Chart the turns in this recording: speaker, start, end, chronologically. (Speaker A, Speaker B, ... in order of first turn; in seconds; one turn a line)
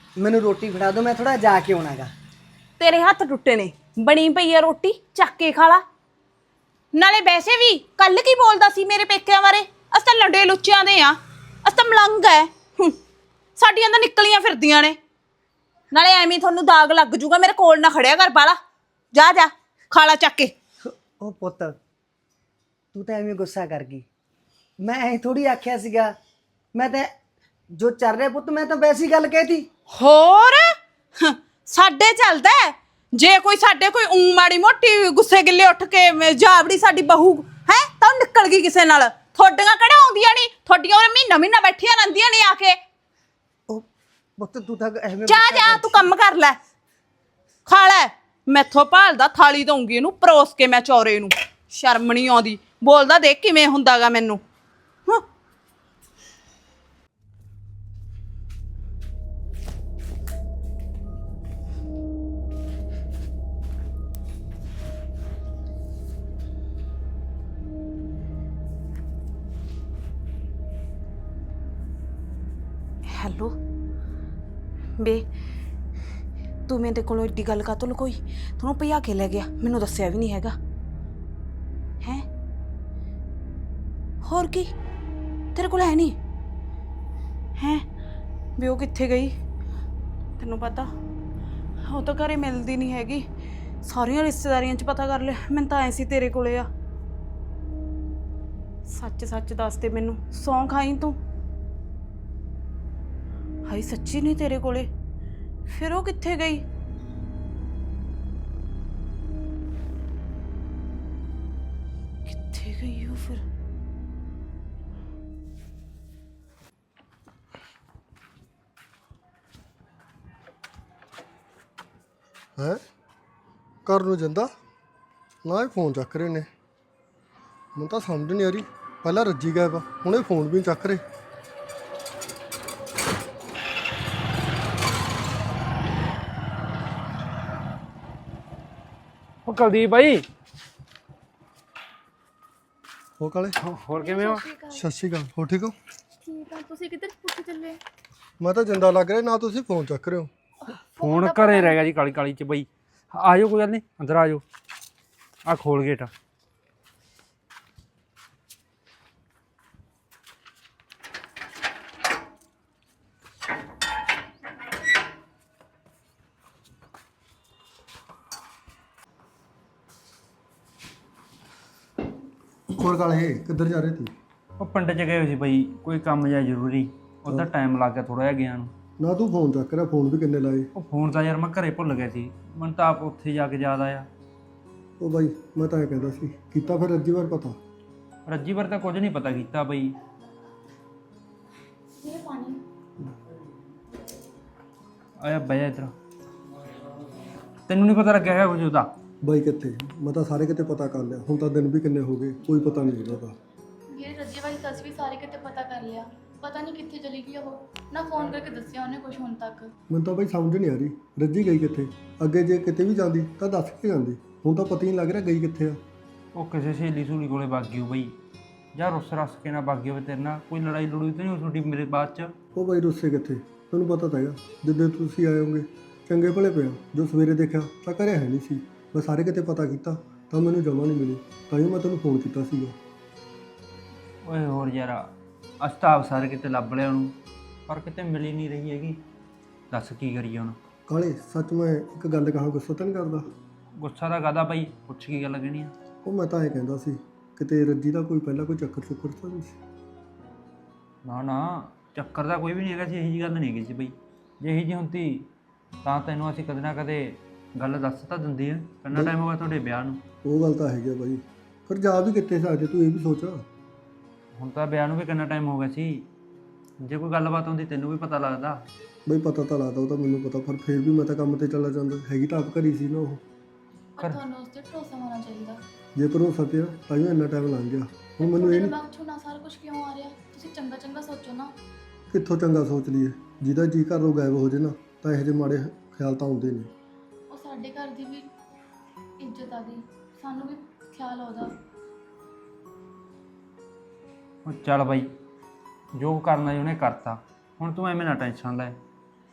Speaker A: 0.2-2.1
Speaker B: 2.8-5.8
Speaker B: 6.9-13.0
Speaker B: 13.6-15.0
Speaker B: 15.9-18.6
Speaker B: 19.1-20.5
Speaker A: 20.9-21.8
Speaker A: 22.9-24.1
Speaker A: 24.8-26.1
Speaker A: 26.8-27.1
Speaker A: 27.7-29.7
Speaker B: 29.9-42.8
Speaker A: 44.4-46.1
Speaker B: 45.3-46.6
Speaker B: 47.7-54.4
Speaker B: 73.1-73.5
Speaker B: 75.0-75.2
Speaker B: 76.7-80.6
Speaker B: 84.2-84.7
Speaker B: 85.5-86.2
Speaker B: 87.6-87.8
Speaker B: 88.6-89.3
Speaker B: 90.4-90.9
Speaker B: 91.8-93.3
Speaker B: 93.8-96.7
Speaker B: 98.9-101.2
Speaker B: 103.7-104.9
Speaker B: 105.7-106.6
Speaker B: 112.3-113.4
Speaker C: 123.8-124.5
Speaker C: 125.4-126.5
Speaker C: 127.8-131.0
Speaker D: 139.5-140.2
Speaker C: 143.2-143.6
Speaker D: 143.6-144.4
Speaker E: 144.0-144.9
Speaker C: 144.7-145.8
Speaker E: 146.2-147.8
Speaker C: 148.4-150.3
Speaker E: 150.7-151.8
Speaker D: 151.0-154.4
Speaker D: 155.5-156.1
Speaker C: 172.8-174.1
Speaker D: 174.6-178.7
Speaker C: 179.0-180.7
Speaker D: 180.8-184.1
Speaker C: 185.0-187.6
Speaker D: 188.3-189.9
Speaker E: 192.0-192.6
Speaker D: 195.2-195.9
Speaker D: 197.7-198.9
Speaker C: 199.2-203.3
Speaker E: 203.9-209.7
Speaker C: 209.9-215.8
Speaker D: 216.3-218.2
Speaker D: 218.8-222.3
Speaker C: 222.6-232.8
Speaker D: 234.2-237.2
Speaker D: 237.7-239.0
Speaker D: 239.7-240.6
Speaker C: 240.9-243.2
Speaker D: 243.8-245.7
Speaker C: 246.0-249.6
Speaker D: 251.1-255.3
Speaker D: 255.8-260.0
Speaker C: 260.2-263.4
Speaker D: 264.4-266.1
Speaker D: 266.8-268.6
Speaker C: 269.1-273.2
Speaker E: 274.0-275.6
Speaker C: 276.0-278.7
Speaker E: 278.2-281.6
Speaker C: 282.1-286.7
Speaker E: 287.3-288.3
Speaker E: 289.2-291.6
Speaker D: 294.4-295.1
Speaker D: 296.0-298.8